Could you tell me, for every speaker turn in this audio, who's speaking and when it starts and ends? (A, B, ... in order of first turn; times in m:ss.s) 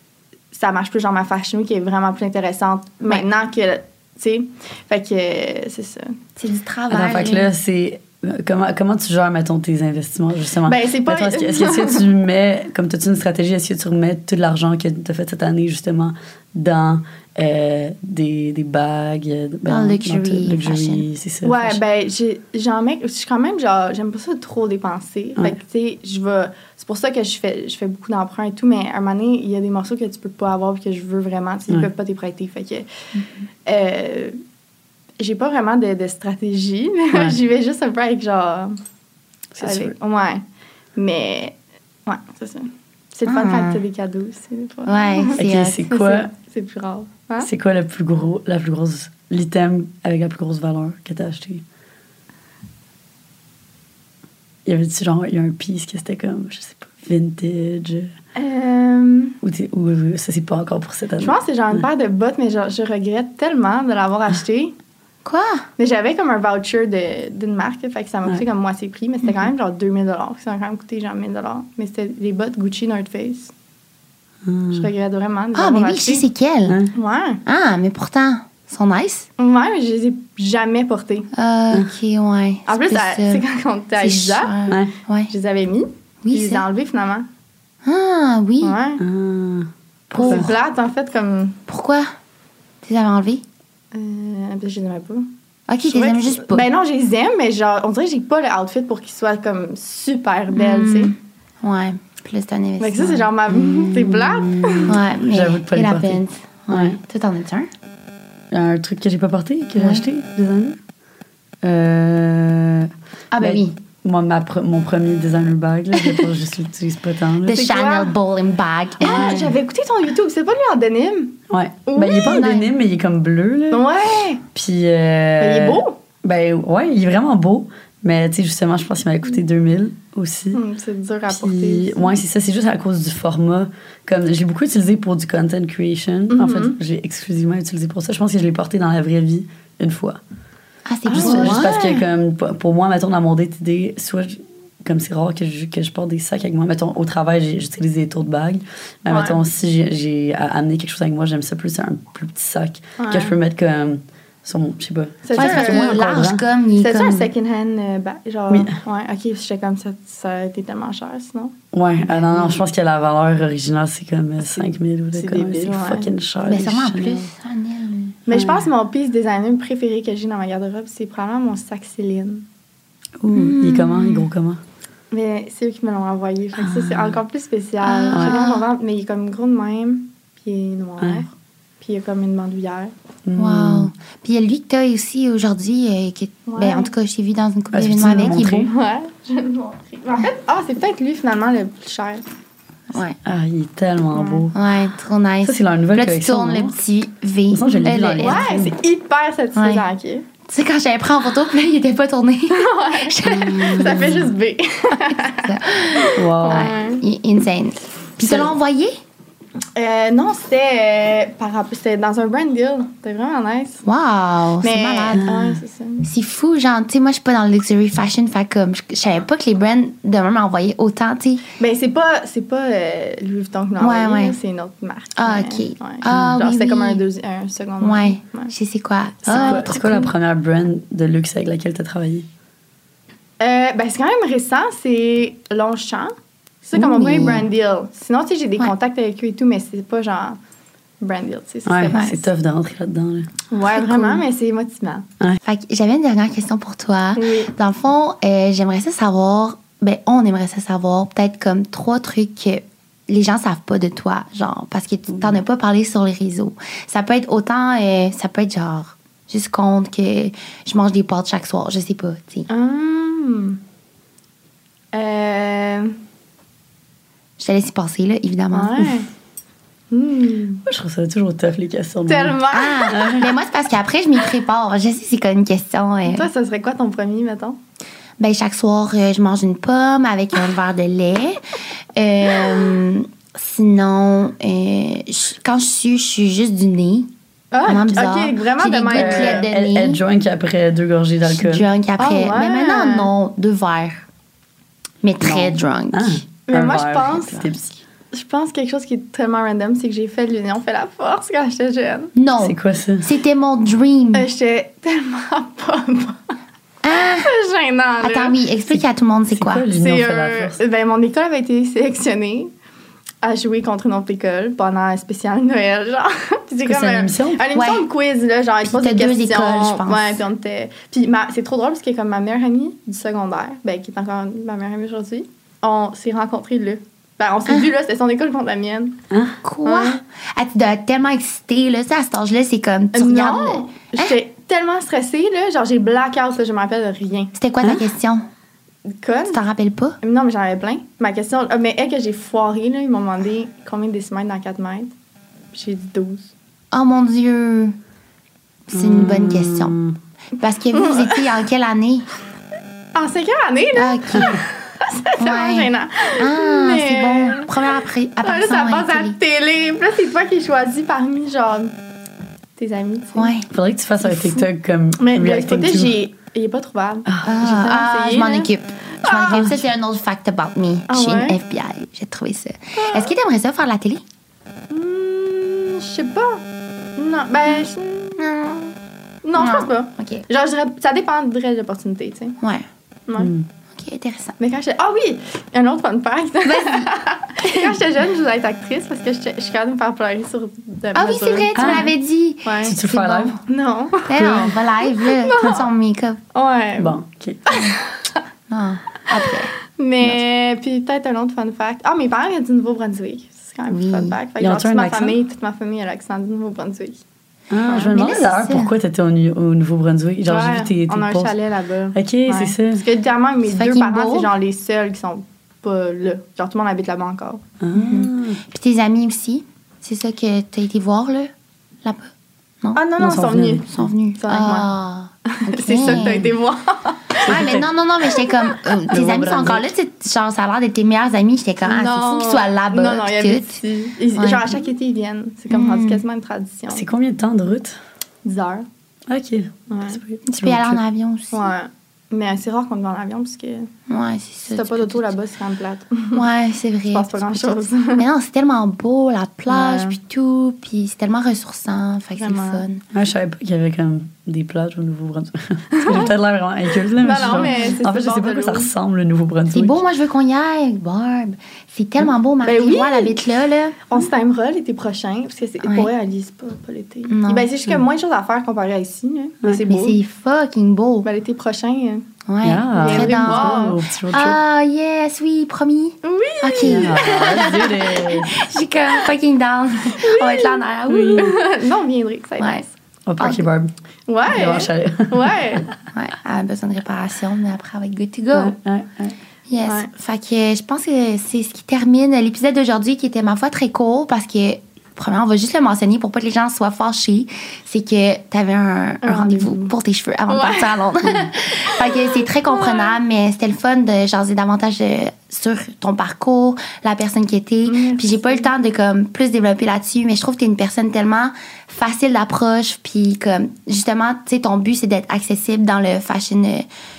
0:00.5-0:06.2 A
0:06.4-0:07.5 B
0:06.9-0:21.8 C
0:10.6-0:12.1 A
0:19.7-0:21.0 B
0:21.4-0:32.9 A
0:33.2-0:33.4 B
0:33.6-0:34.4 A
0:35.2-0:38.8 A
0:37.1-0:37.4 C
0:39.5-0:39.9 C
0:39.6-0:40.4 A
0:41.0-0:41.6 A
0:42.1-0:47.5 A
0:43.3-0:43.8 B
0:44.9-0:45.8 B
0:45.4-0:46.3 C
0:47.4-0:51.6 C
0:54.7-0:58.1 C
0:58.4-0:59.4 A
0:59.4-1:01.8 C
1:01.2-1:04.7 A
1:05.2-1:05.7 B
1:05.8-1:13.5 A
1:09.2-1:09.5 B
1:14.4-1:14.9 C
1:14.7-1:16.3 A
1:15.6-1:16.8 B
1:16.7-1:16.9 C
1:17.0-1:17.4 A
1:17.4-1:19.3 B
1:19.4-1:21.3 A
1:21.3-1:23.4 B
1:22.7-1:24.6 A
1:24.0-1:25.3 B
1:25.3-1:27.3 A
1:26.2-1:26.6 B
1:27.8-1:28.8 B
1:28.6-1:29.0 A
1:29.0-1:29.7 C
1:30.1-1:30.5 B
1:30.1-1:31.6 A
1:30.2-1:30.5 C
1:31.7-1:32.1 B
1:32.8-1:33.4 B
1:33.9-1:35.3 A
1:35.7-1:36.7 B
1:35.9-1:41.1 A
1:40.5-1:43.9 B
1:42.8-1:45.0 A
1:43.7-1:47.0 C
1:44.8-1:47.7 B
1:48.5-1:50.8 C
1:49.8-1:50.0 B
1:51.6-1:57.7 C
1:53.3-1:53.8 B
1:56.0-1:56.3 B
1:57.5-1:59.5 B
1:57.6-1:58.1 A
1:59.0-1:59.6 C
1:59.0-2:02.4 A
2:01.5-2:03.9 C
2:02.1-2:02.7 B
2:03.7-2:04.4 A
2:04.5-2:10.6 C
2:05.4-2:06.0 A
2:10.5-2:12.2 A
2:11.3-2:20.2 C
2:16.3-2:16.8 A
2:20.9-2:21.8 B
2:21.1-2:22.0 A
2:21.2-2:36.4 C
2:29.1-2:29.4 A
2:33.0-2:33.4 A
2:35.2-2:36.0 A
2:35.4-2:37.2 B
2:36.8-2:41.5 A
2:38.5-2:38.8 C
2:41.7-2:47.3 C
2:42.0-2:42.6 B
2:44.5-2:46.1 A
2:46.4-2:48.2 B
2:48.3-2:52.5 A
2:48.3-2:48.7 C
2:53.2-2:54.6 C
2:53.3-2:54.3 B
2:55.1-3:01.3 A
2:56.8-2:57.0 C
2:57.8-2:58.7 B
3:01.0-3:01.2 C
3:01.8-3:02.9 A
3:03.3-3:03.9 C
3:03.4-3:08.7 B
3:06.5-3:06.9 A
3:07.7-3:08.7 C
3:08.3-3:12.3 A
3:12.9-3:13.2 B
3:13.2-3:14.6 C
3:14.1-3:14.5 A
3:14.5-3:18.5 B
3:15.4-3:16.8 C
3:17.5-3:18.8 C
3:18.2-3:20.2 A
3:19.6-3:19.8 B
3:20.5-3:24.2 B
3:22.5-3:27.0 A
3:23.8-3:24.1 C
3:24.9-3:29.0 B
3:26.2-3:26.7 C
3:29.8-3:33.8 A
3:33.8-3:35.2 B
3:34.6-3:36.1 A
3:35.2-3:35.6 C
3:36.0-3:41.5 B
3:41.6-3:48.5 A
3:43.8-3:44.4 B
3:45.2-3:47.0 B
3:47.8-3:50.1 B
3:49.3-3:49.8 A
3:49.3-3:52.3 C
3:53.4-4:00.4 A
3:56.8-3:57.5 B
4:01.0-4:02.2 A
4:01.7-4:03.3 C
4:01.9-4:02.2 B
4:03.5-4:05.1 A
4:03.7-4:04.2 B
4:05.4-4:22.5 B
4:07.2-4:07.5 A
4:22.5-4:23.6 A
4:24.9-4:26.0 A
4:27.4-4:29.0 B
4:28.5-4:29.1 A
4:29.9-4:30.6 A
4:30.7-4:33.4 C
4:32.1-4:33.0 A
4:32.5-4:36.3 B
4:36.1-4:37.6 A
4:38.2-4:41.4 B
4:42.0-4:47.1 B
4:47.5-4:49.5 A
4:47.6-4:50.0 B
4:48.9-4:51.7 C
4:51.3-4:54.1 B
4:52.0-4:53.1 A
4:55.0-4:56.2 B
4:55.2-4:57.8 C
4:56.5-4:57.6 A
4:58.1-5:02.1 A
5:02.2-5:04.3 B
5:02.4-5:03.1 C
5:04.1-5:06.3 A
5:06.8-5:07.3 B
5:07.0-5:08.4 A
5:08.0-5:09.7 B
5:09.3-5:10.6 C
5:09.7-5:12.5 A
5:13.2-5:29.0 A
5:16.7-5:17.4 C
5:17.5-5:17.9 B
5:18.6-5:20.2 B
5:29.1-5:29.4 C
5:29.4-5:34.2 B
5:29.6-5:30.0 A
5:32.9-5:37.3 A
5:37.3-5:38.2 B
5:38.9-5:39.4 A
5:39.3-5:40.0 B
5:40.0-5:44.9 A
5:45.5-5:46.3 A
5:46.7-5:47.8 B
5:48.7-5:49.8 B
5:48.7-5:50.0 C
5:50.4-5:52.1 B
5:50.7-5:51.4 A
5:53.0-6:01.7 A
5:53.7-5:54.4 B
5:55.2-5:59.2 B
6:02.6-6:03.3 A
6:03.2-6:03.5 B
6:03.5-6:06.0 C
6:05.0-6:08.5 A
6:07.2-6:14.0 B
6:09.0-6:09.6 A
6:09.3-6:09.6 C
6:10.9-6:11.4 A
6:12.8-6:13.1 A
6:14.7-6:16.4 A
6:17.0-6:18.2 A
6:18.2-6:18.7 B
6:19.2-6:22.4 A
6:19.4-6:20.2 B
6:22.4-6:22.7 B
6:23.1-6:23.3 A
6:23.2-6:23.5 C
6:23.8-6:24.4 B
6:24.4-6:31.9 A
6:26.4-6:27.8 B
6:31.0-6:33.4 B
6:31.6-6:31.9 C
6:32.4-6:32.8 A
6:32.6-6:33.4 C
6:33.5-6:35.7 A
6:34.1-6:36.2 B
6:34.2-6:34.5 C
6:36.3-6:38.2 A
6:36.8-6:37.4 C
6:38.5-6:40.2 B
6:39.7-6:47.0 A
6:43.7-6:44.2 B
6:44.4-6:45.2 C
6:47.5-6:51.3 C
6:47.7-6:48.7 B
6:50.3-6:57.4 A
6:52.0-6:52.8 C
6:53.4-6:54.3 B
6:57.6-6:58.4 C
6:57.7-7:01.3 B
7:01.8-7:02.1 B
7:02.8-7:03.6 A
7:03.0-7:03.9 C
7:03.7-7:06.3 B
7:04.2-7:04.7 A
7:05.3-7:07.6 A
7:07.2-7:13.6 B
7:07.3-7:07.7 C
7:08.9-7:09.7 C
7:11.6-7:16.8 A
7:14.2-7:14.6 B
7:15.5-7:16.0 B
7:16.7-7:17.8 C
7:18.2-7:18.7 A
7:19.1-7:20.8 C
7:19.7-7:20.0 A
7:20.3-7:21.5 B
7:21.3-7:23.7 A
7:23.9-7:25.1 B
7:24.4-7:26.3 A
7:26.1-7:32.8 B
7:26.9-7:28.0 A
7:29.5-7:30.0 A
7:32.2-7:32.6 A
7:32.9-7:39.8 C
7:35.8-7:36.1 A
7:37.0-7:38.7 A
7:37.3-7:37.8 B
7:39.5-7:43.8 B
7:42.4-7:43.3 A
7:43.9-7:50.0 A
7:45.6-7:45.9 B
7:47.1-7:47.5 B
7:49.7-7:51.1 B
7:51.0-7:52.1 A
7:52.3-8:01.4 B
7:52.4-7:54.4 C
7:52.8-7:53.8 A
7:56.0-7:58.0 A
7:56.6-7:58.4 C
7:59.9-8:00.6 A
8:00.9-8:01.4 C
8:01.2-8:02.7 A
8:03.1-8:03.7 C
8:03.2-8:03.5 B
8:04.1-8:05.7 A
8:04.3-8:05.6 C
8:05.9-8:08.6 B
8:08.3-8:09.2 C
8:09.5-8:36.7 B
8:09.6-8:09.9 A
8:19.0-8:19.7 A
8:20.3-8:23.0 A
8:27.6-8:28.5 A